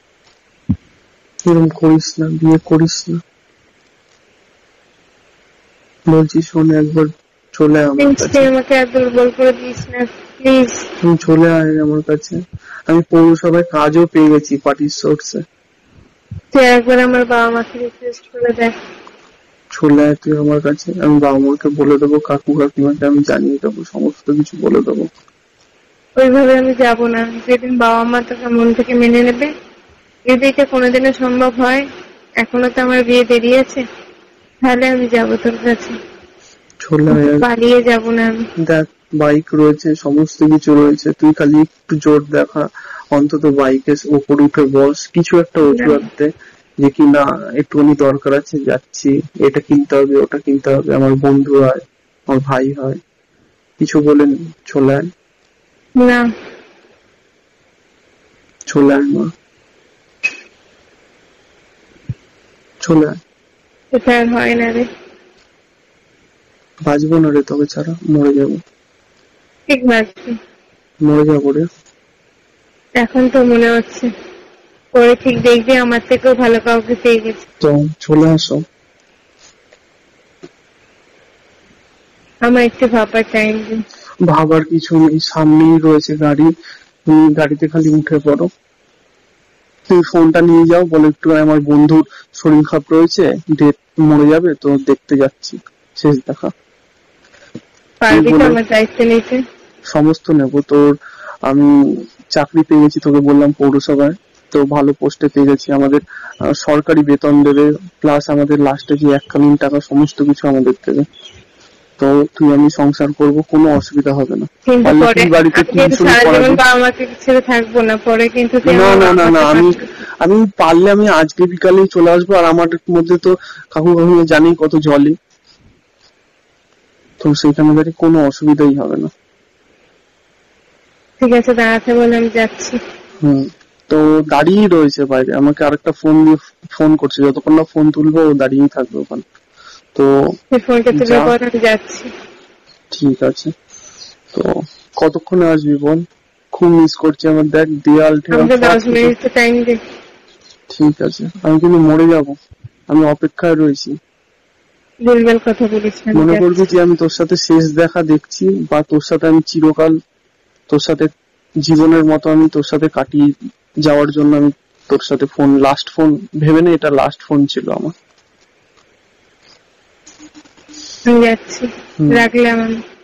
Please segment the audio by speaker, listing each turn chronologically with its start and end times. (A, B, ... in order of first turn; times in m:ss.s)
0:01.5-0:03.2 A
0:06.1-0:08.5 A
0:08.0-0:10.8 B
0:11.0-0:15.4 A
0:16.5-0:18.7 B
0:19.7-0:25.1 A
0:26.2-0:29.5 B
0:30.3-0:31.8 B
0:32.4-0:33.8 B
0:34.6-0:36.0 B
0:36.8-0:37.5 A
0:37.1-0:38.4 B
0:38.6-0:46.3 A
0:45.7-0:46.0 B
0:46.8-0:53.0 A
0:53.8-0:55.1 A
0:56.0-0:56.2 B
0:58.7-0:59.3 A
1:02.8-1:03.2 A
1:03.9-1:04.9 B
1:06.9-1:08.6 A
1:09.7-1:10.3 B
1:11.0-1:11.7 A
1:13.0-1:14.1 B
1:14.9-1:17.4 B
1:17.6-1:18.6 A
1:22.4-1:23.8 B
1:24.3-1:26.5 A
1:27.1-1:28.5 A
1:29.9-1:36.5 A
1:38.0-1:39.4 B
1:38.1-1:38.6 A
1:39.9-1:40.9 A
1:42.3-1:46.0 A
1:46.5-1:51.0 A
1:52.0-1:56.6 A
1:54.7-1:59.8 B
1:58.6-2:05.2 A
2:07.2-2:09.1 A
2:11.2-2:12.8 B
2:13.2-2:19.2 A
2:20.5-2:22.1 B
2:20.9-2:21.3 A
2:22.9-2:23.5 A
2:24.3-2:26.0 A
2:26.5-2:29.1 A
2:28.3-2:29.8 B
2:30.7-2:32.3 A
2:32.9-2:33.9 A
2:35.0-2:36.7 B
2:36.1-2:39.9 A
2:40.7-2:41.1 A
2:41.6-2:43.3 A
2:43.8-2:48.0 A
2:51.1-2:52.8 B
2:52.0-2:52.3 A